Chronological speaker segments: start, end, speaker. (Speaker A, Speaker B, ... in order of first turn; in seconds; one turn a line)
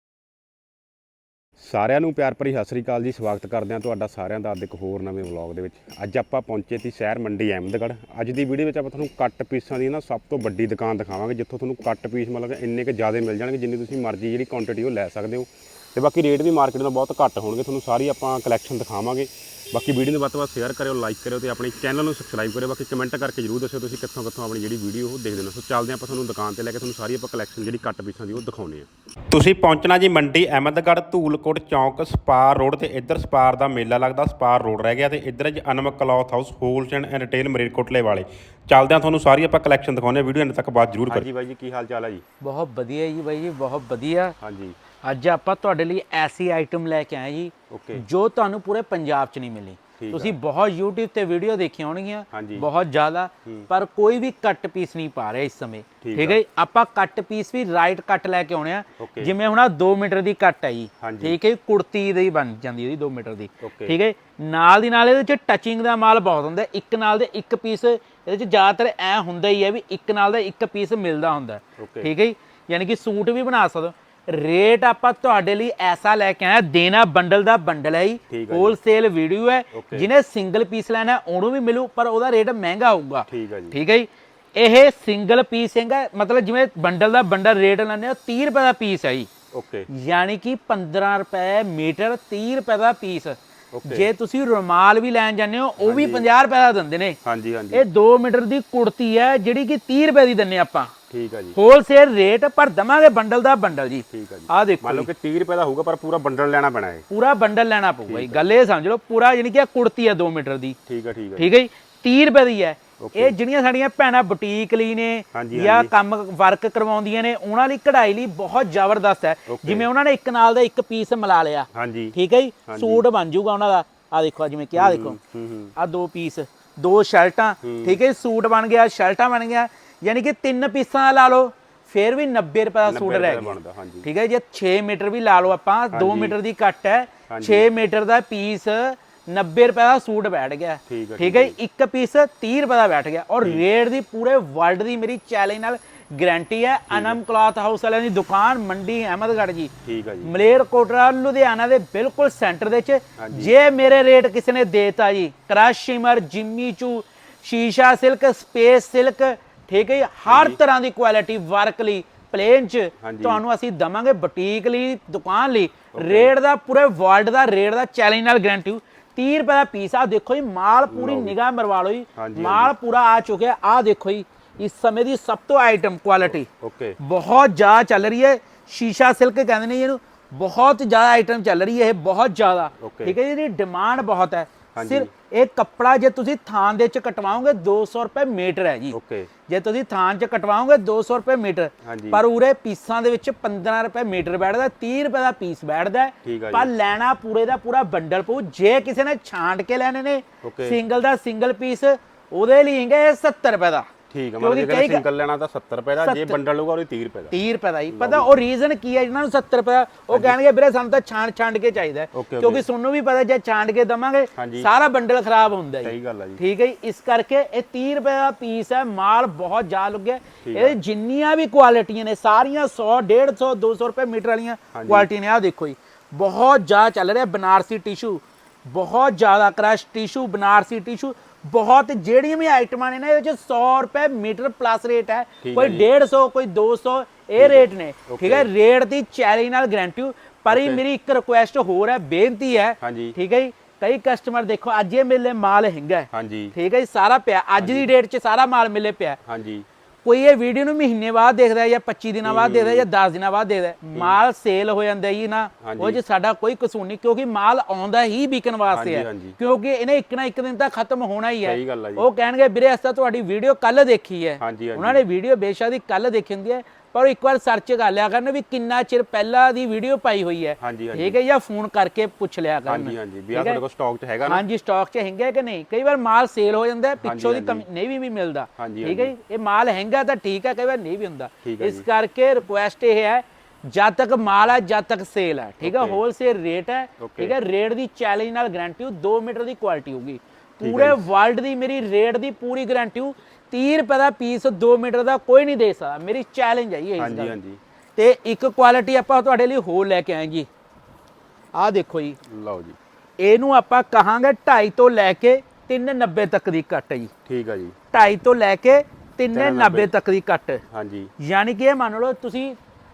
Speaker A: 1.6-42.2
Speaker B: 42.4-44.3
Speaker A: 44.4-44.8
Speaker B: 45.0-89.3
Speaker A: 47.7-48.0
Speaker A: 50.0-50.4
Speaker A: 52.3-52.7
Speaker A: 56.0-56.4
Speaker A: 59.0-59.3
Speaker A: 61.0-61.4
Speaker A: 63.6-64.0
Speaker A: 71.8-72.1
Speaker A: 78.3-78.8
Speaker A: 79.7-80.1
Speaker A: 83.3-83.8
Speaker A: 89.5-89.9
Speaker B: 89.9-97.2
Speaker A: 93.7-94.1
Speaker A: 95.8-96.3
Speaker A: 97.2-97.8
Speaker B: 97.7-100.9
Speaker A: 101.1-101.6
Speaker B: 101.5-105.1
Speaker A: 104.1-107.0
Speaker B: 107.1-110.8
Speaker A: 108.0-108.5
Speaker A: 110.9-111.5
Speaker B: 111.4-125.2
Speaker A: 113.0-113.3
Speaker A: 115.3-115.9
Speaker A: 119.5-119.9
Speaker A: 121.7-123.0
Speaker A: 124.7-125.7
Speaker B: 125.8-149.7
Speaker A: 127.6-128.0
Speaker A: 132.8-134.1
Speaker A: 135.9-136.4
Speaker A: 137.3-137.7
Speaker A: 140.9-141.6
Speaker A: 146.9-147.2
Speaker A: 149.8-150.3
Speaker B: 150.2-176.5
Speaker A: 153.2-153.5
Speaker A: 160.3-160.6
Speaker A: 163.0-163.4
Speaker A: 165.9-166.3
Speaker A: 170.9-171.3
Speaker A: 172.2-172.7
Speaker A: 176.2-177.0
Speaker B: 177.0-188.9
Speaker A: 182.8-183.2
Speaker A: 184.7-185.1
Speaker A: 188.9-189.3
Speaker B: 189.5-203.9
Speaker A: 191.8-192.2
Speaker A: 196.2-196.7
Speaker A: 200.4-200.8
Speaker A: 204.1-207.3
Speaker B: 204.4-205.0
Speaker B: 206.0-206.4
Speaker B: 207.3-249.2
Speaker A: 207.9-208.3
Speaker A: 210.1-210.4
Speaker A: 212.1-212.7
Speaker A: 214.3-214.7
Speaker A: 215.8-216.4
Speaker A: 220.4-220.8
Speaker A: 224.7-225.1
Speaker A: 235.4-235.9
Speaker A: 237.4-238.5
Speaker A: 240.5-240.8
Speaker A: 242.8-243.2
Speaker A: 246.1-246.5
Speaker A: 247.6-247.9
Speaker A: 249.2-249.7
Speaker B: 250.0-273.6
Speaker A: 252.2-252.9
Speaker A: 253.9-254.2
Speaker A: 255.6-256.0
Speaker A: 258.7-259.4
Speaker A: 261.4-262.1
Speaker A: 264.4-265.0
Speaker A: 270.6-271.2
Speaker A: 272.6-274.4
Speaker B: 274.2-297.4
Speaker A: 277.0-277.6
Speaker A: 278.6-279.1
Speaker A: 281.4-281.8
Speaker A: 285.6-286.0
Speaker A: 287.0-287.3
Speaker A: 290.6-291.0
Speaker A: 297.0-297.6
Speaker B: 298.0-300.5
Speaker B: 301.6-302.2
Speaker A: 302.3-302.8
Speaker B: 303.2-307.1
Speaker A: 307.2-307.8
Speaker B: 307.9-310.6
Speaker A: 309.3-309.9
Speaker A: 310.7-311.1
Speaker B: 311.2-312.6